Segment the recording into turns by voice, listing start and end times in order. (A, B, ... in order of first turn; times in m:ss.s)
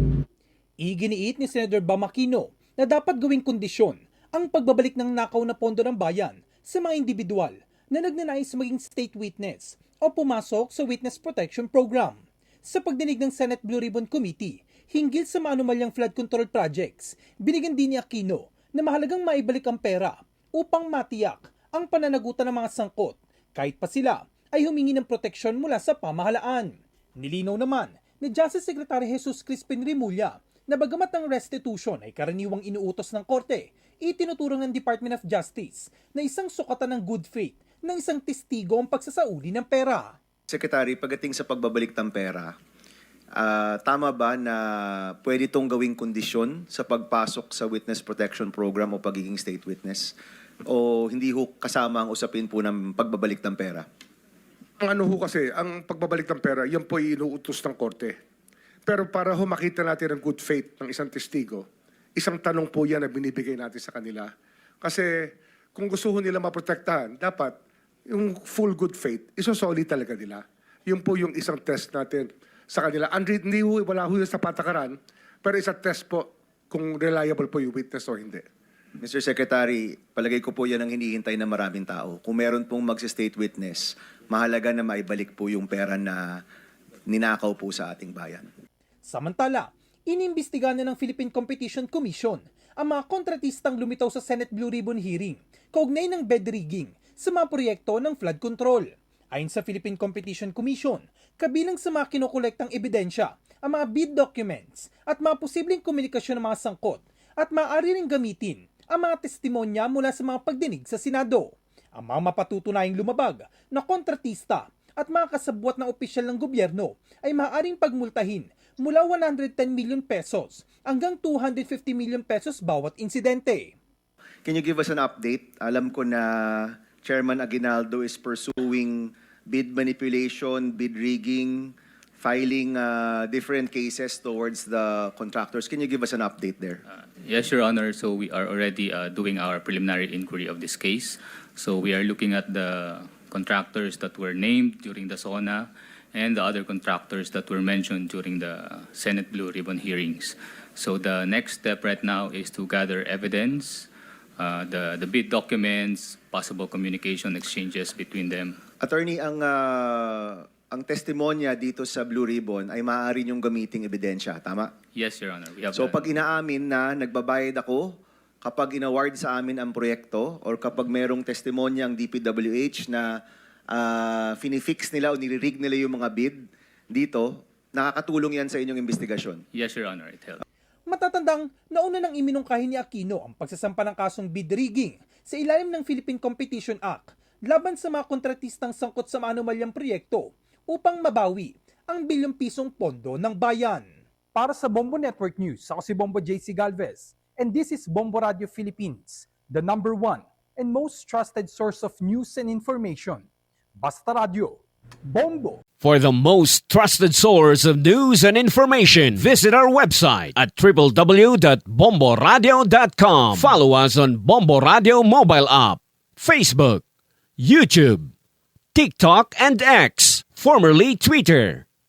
0:00.8-0:40.1 A
0:40.5-0:42.5 B
0:43.4-0:50.1 B
0:50.7-0:53.8 B
0:54.8-0:58.2 C
0:58.8-1:07.6 C
1:08.1-1:18.4 C
1:19.0-1:26.4 B
1:27.1-1:28.4 B
1:29.0-2:03.7 A
2:04.4-2:16.8 B
2:16.9-2:38.6 D
2:38.8-2:44.7 B
2:44.9-2:46.2 D
2:45.7-2:53.2 B
2:53.7-2:59.4 B
2:59.5-3:00.4 D
3:00.9-3:23.3 A
3:23.8-3:25.6 A
3:25.8-3:36.8 E
3:37.4-3:38.1 E
3:38.7-3:41.6 E